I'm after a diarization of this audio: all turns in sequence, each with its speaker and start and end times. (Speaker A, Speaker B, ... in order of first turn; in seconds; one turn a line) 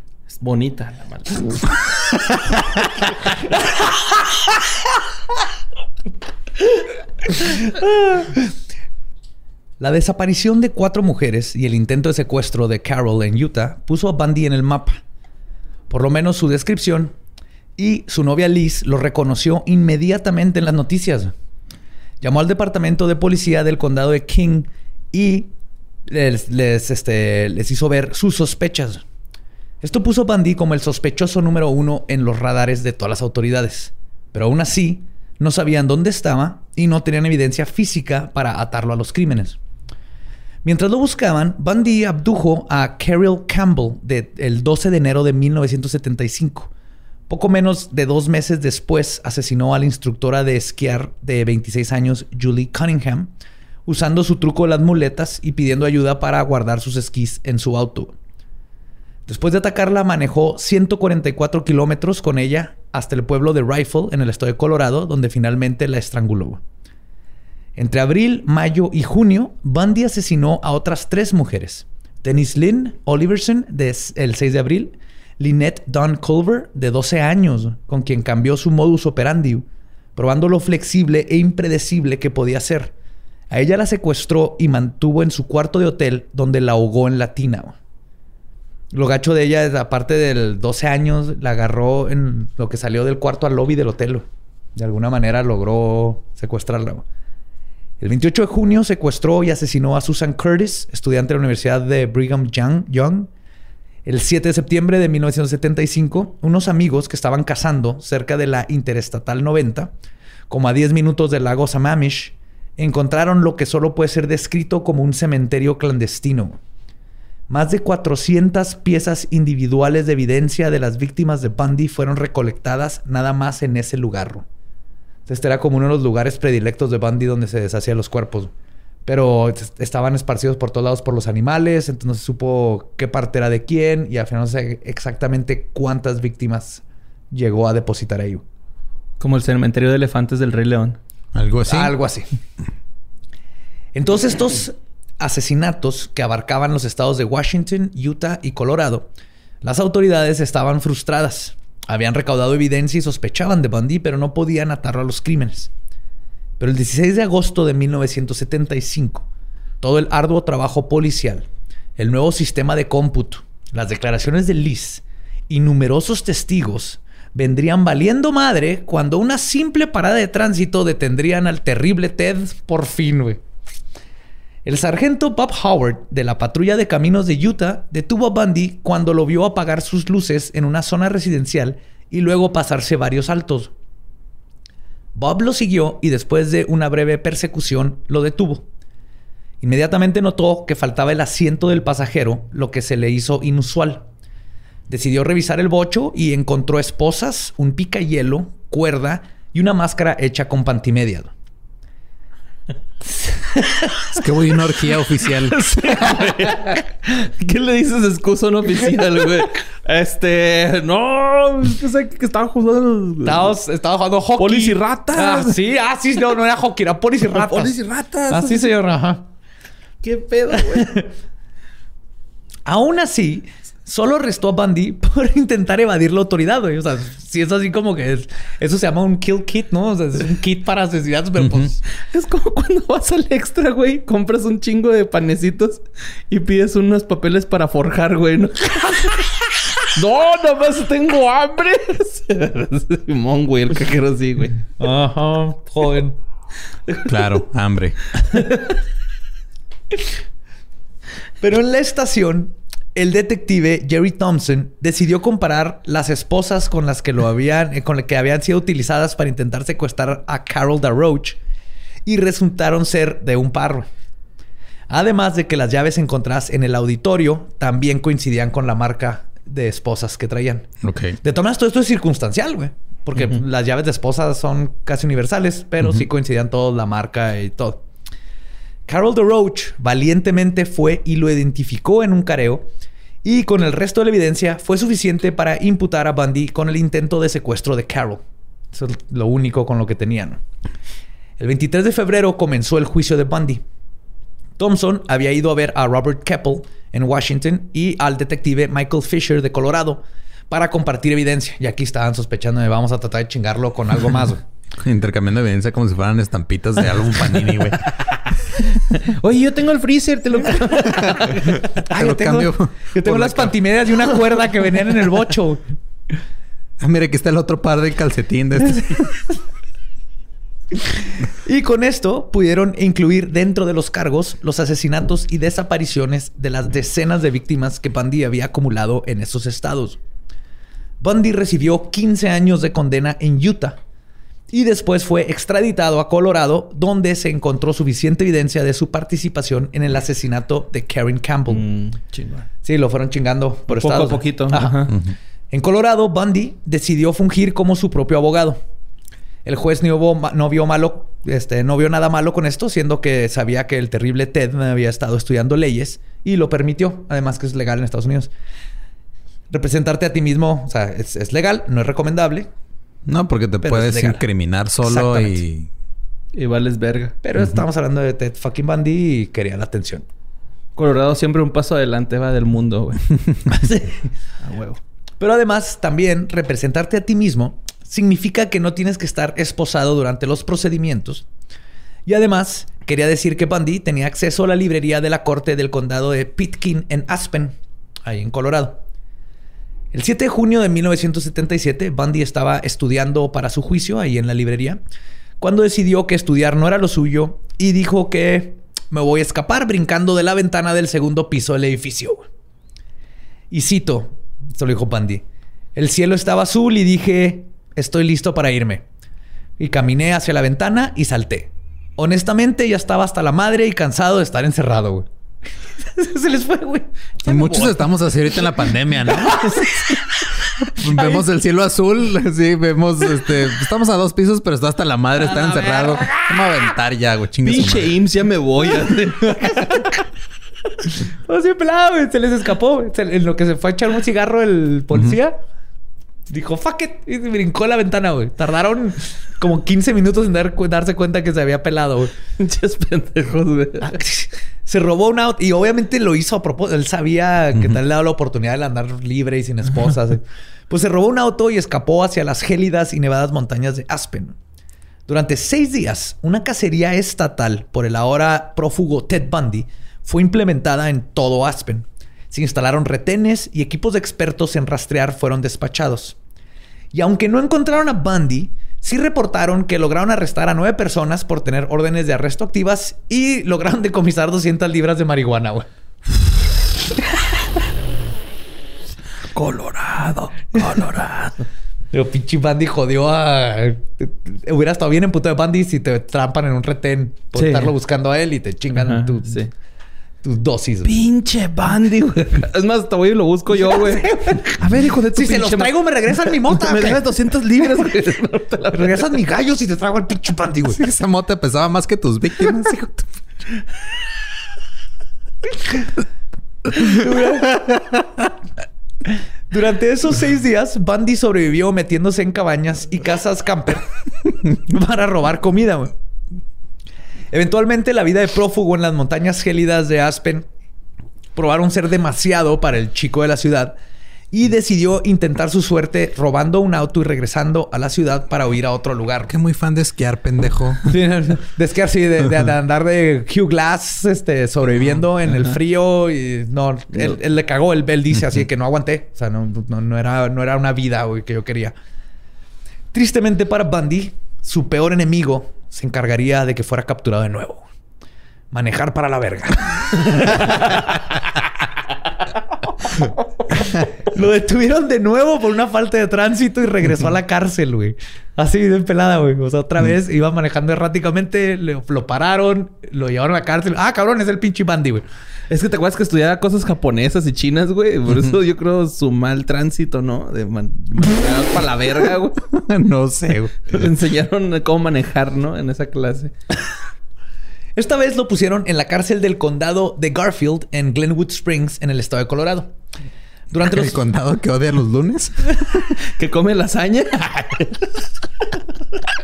Speaker A: 0.3-1.8
Speaker B: 7.8-8.5
Speaker B: 9.8-15.0
Speaker B: 15.9-17.1
Speaker B: 17.8-21.3
Speaker B: 22.2-25.5
Speaker B: 26.1-29.0
Speaker B: 29.8-39.6
Speaker B: 40.6-46.7
Speaker B: 47.3-53.3
Speaker B: 53.9-58.1
Speaker B: 59.3-66.6
Speaker B: 67.8-82.9
Speaker B: 83.5-87.8
Speaker B: 88.9-97.0
Speaker B: 98.0-103.3
Speaker B: 104.0-109.9
Speaker B: 110.5-116.6
Speaker B: 117.5-124.4
Speaker B: 125.3-128.5
Speaker B: 129.0-138.4
Speaker A: 139.2-141.0
Speaker C: 141.3-141.9
Speaker B: 141.7-142.3
Speaker B: 143.9-149.1
Speaker B: 149.6-155.7
Speaker B: 156.6-159.2
Speaker B: 159.8-173.4
Speaker B: 174.6-183.7
Speaker B: 185.1-188.6
Speaker B: 189.6-194.1
Speaker B: 194.9-201.3
Speaker C: 204.1-206.0
Speaker A: 205.5-213.5
Speaker B: 213.2-217.7
Speaker A: 214.4-215.6
Speaker A: 217.3-218.7
Speaker B: 218.3-219.3
Speaker A: 220.0-221.0
Speaker B: 220.5-221.1
Speaker B: 222.6-231.8
Speaker C: 231.4-231.7
Speaker A: 232.1-244.6
Speaker B: 244.8-246.2
Speaker C: 247.0-248.0
Speaker A: 248.2-248.8
Speaker B: 251.4-261.4
Speaker B: 262.0-263.9
Speaker B: 264.9-270.7
Speaker C: 270.8-271.2
Speaker B: 271.2-277.8
Speaker B: 278.9-282.7
Speaker B: 283.2-290.4
Speaker B: 291.4-293.6
Speaker B: 294.6-304.4
Speaker C: 304.8-307.9
Speaker A: 308.9-311.6
Speaker C: 311.1-313.6
Speaker B: 311.8-315.6
Speaker C: 316.8-319.2
Speaker B: 320.7-330.0
Speaker B: 331.0-333.8
Speaker B: 334.5-341.6
Speaker A: 341.5-342.5
Speaker B: 342.6-344.9
Speaker A: 343.7-344.9
Speaker B: 345.5-348.6
Speaker B: 349.4-358.3
Speaker B: 359.5-362.5
Speaker C: 363.1-365.7
Speaker B: 363.6-364.2
Speaker B: 364.8-365.4
Speaker A: 366.3-367.1
Speaker B: 367.2-370.0
Speaker A: 370.8-373.1
Speaker B: 373.5-374.0
Speaker A: 374.4-374.8
Speaker B: 375.2-381.2
Speaker B: 382.1-388.8
Speaker B: 389.9-394.8
Speaker B: 395.4-402.2
Speaker B: 403.5-408.8
Speaker B: 409.6-415.1
Speaker B: 415.8-417.9
Speaker C: 417.2-419.7
Speaker B: 419.1-420.0
Speaker C: 420.7-428.0
Speaker B: 420.8-421.2
Speaker B: 425.2-426.7
Speaker A: 427.4-429.8
Speaker B: 429.4-429.9
Speaker B: 430.9-435.4
Speaker B: 436.3-442.1
Speaker A: 442.4-444.0
Speaker B: 443.8-454.4
Speaker B: 455.1-466.2
Speaker B: 466.9-475.7
Speaker A: 479.3-481.4
Speaker B: 481.9-489.4
Speaker A: 487.3-487.7
Speaker A: 488.8-489.5
Speaker B: 490.2-491.0
Speaker A: 490.8-499.2
Speaker B: 493.6-498.1
Speaker B: 498.7-500.8
Speaker C: 500.7-503.1
Speaker B: 506.8-507.8
Speaker B: 509.0-513.9
Speaker B: 514.4-515.9
Speaker B: 517.3-520.5
Speaker B: 521.3-523.8
Speaker B: 524.3-529.3
Speaker C: 529.3-530.9
Speaker B: 530.8-541.7
Speaker B: 542.9-547.6
Speaker B: 548.5-551.5
Speaker B: 552.8-565.0
Speaker A: 565.5-572.4
Speaker C: 572.5-573.8
Speaker A: 573.7-576.3
Speaker B: 577.8-582.7
Speaker B: 583.5-584.0
Speaker C: 583.6-585.8
Speaker A: 586.0-588.0